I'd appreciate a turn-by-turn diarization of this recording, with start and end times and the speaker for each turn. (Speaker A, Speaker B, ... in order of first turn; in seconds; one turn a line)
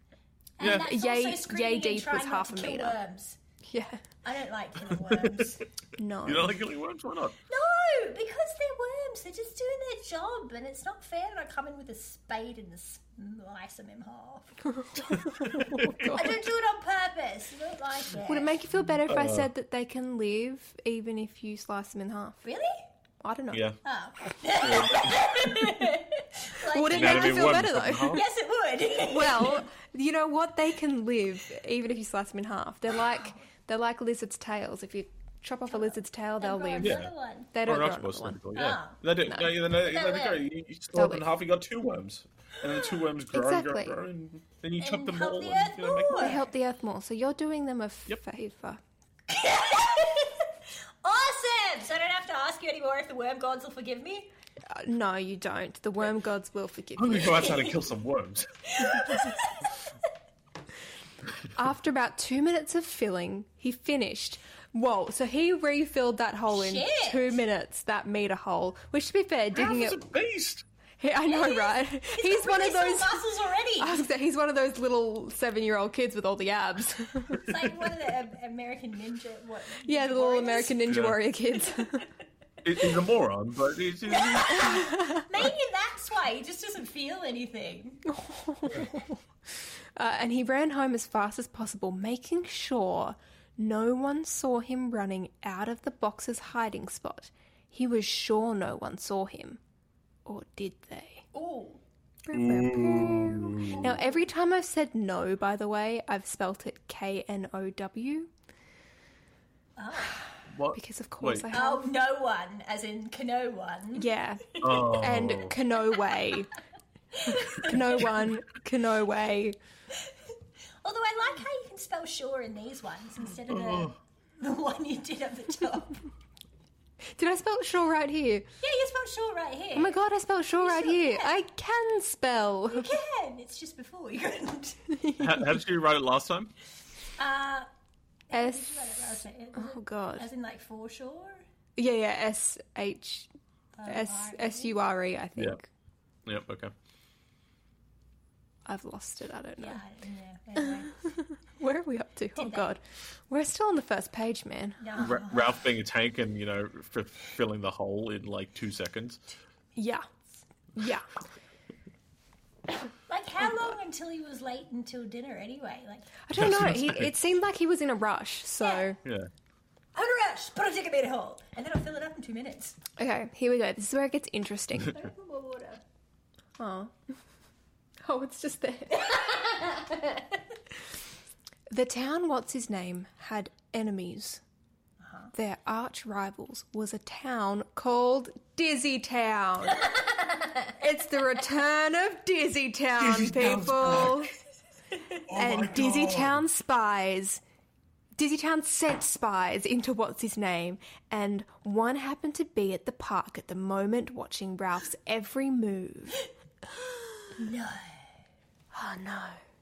Speaker A: 0.6-3.4
Speaker B: 0.6-3.0
Speaker C: 0.6-0.9
Speaker B: 3.7-4.0
Speaker A: 4.2-5.6
Speaker C: 4.9-5.5
Speaker B: 6.0-6.6
Speaker C: 6.2-7.4
Speaker A: 7.5-14.6
Speaker B: 14.9-16.3
Speaker C: 15.0-16.3
Speaker A: 16.1-18.5
Speaker B: 18.3-22.4
Speaker C: 19.1-19.5
Speaker A: 22.4-22.9
Speaker B: 23.2-23.7
Speaker A: 23.8-29.7
Speaker C: 24.6-25.7
Speaker B: 26.7-28.2
Speaker C: 26.9-28.2
Speaker B: 29.1-38.4
Speaker A: 35.7-37.5
Speaker C: 36.8-37.1
Speaker C: 37.6-46.4
Speaker A: 38.5-39.0
Speaker B: 39.3-39.5
Speaker A: 39.8-40.4
Speaker B: 41.0-41.2
Speaker B: 43.3-44.0
Speaker A: 44.8-46.5
Speaker B: 46.2-48.8
Speaker A: 49.3-50.5
Speaker A: 51.0-54.3
Speaker B: 54.7-57.6
Speaker C: 57.0-59.2
Speaker A: 58.8-59.9
Speaker B: 61.5-70.0
Speaker A: 66.5-67.4
Speaker C: 69.5-70.6
Speaker B: 71.0-73.2
Speaker A: 71.3-74.1
Speaker B: 73.8-77.4
Speaker A: 77.4-80.8
Speaker B: 79.8-82.1
Speaker C: 80.9-81.2
Speaker A: 81.7-82.0
Speaker C: 82.6-84.8
Speaker A: 84.1-88.0
Speaker B: 84.6-85.2
Speaker B: 88.1-99.6
Speaker B: 100.3-101.2
Speaker A: 101.3-101.8
Speaker B: 102.3-108.3
Speaker C: 102.3-103.9
Speaker A: 103.7-104.0
Speaker A: 109.8-110.2
Speaker C: 110.5-111.5
Speaker B: 110.7-111.9
Speaker A: 111.5-114.8
Speaker B: 114.0-116.5
Speaker C: 114.6-115.6
Speaker A: 117.1-118.0
Speaker B: 117.3-119.6
Speaker A: 120.8-126.0
Speaker C: 123.5-124.0
Speaker B: 127.2-128.5
Speaker A: 128.6-130.0
Speaker B: 129.8-133.0
Speaker A: 130.6-131.4
Speaker A: 132.7-134.9
Speaker B: 135.0-135.6
Speaker C: 135.2-136.5
Speaker A: 137.2-137.7
Speaker A: 138.3-141.4
Speaker B: 138.3-140.3
Speaker B: 141.8-143.3
Speaker A: 143.8-144.8
Speaker B: 143.9-145.7
Speaker C: 146.3-146.7
Speaker B: 148.7-149.8
Speaker A: 149.6-150.9
Speaker B: 150.6-154.8
Speaker A: 152.4-152.7
Speaker A: 154.8-155.6
Speaker C: 155.0-159.2
Speaker B: 159.8-160.1
Speaker B: 160.8-161.1
Speaker A: 163.1-166.1
Speaker B: 163.4-163.7
Speaker B: 166.3-169.0
Speaker C: 166.3-167.1
Speaker A: 168.6-168.9
Speaker C: 169.0-169.3
Speaker A: 169.9-172.8
Speaker B: 173.0-175.0
Speaker A: 174.9-175.8
Speaker B: 176.6-176.9
Speaker B: 178.0-179.3
Speaker A: 178.9-180.4
Speaker B: 181.7-184.4
Speaker A: 185.0-185.3
Speaker B: 185.3-189.9
Speaker A: 189.8-190.7
Speaker B: 190.7-194.3
Speaker C: 193.0-194.3
Speaker C: 195.3-196.4
Speaker B: 195.3-197.4
Speaker B: 198.2-206.3
Speaker A: 207.3-208.1
Speaker B: 208.7-209.4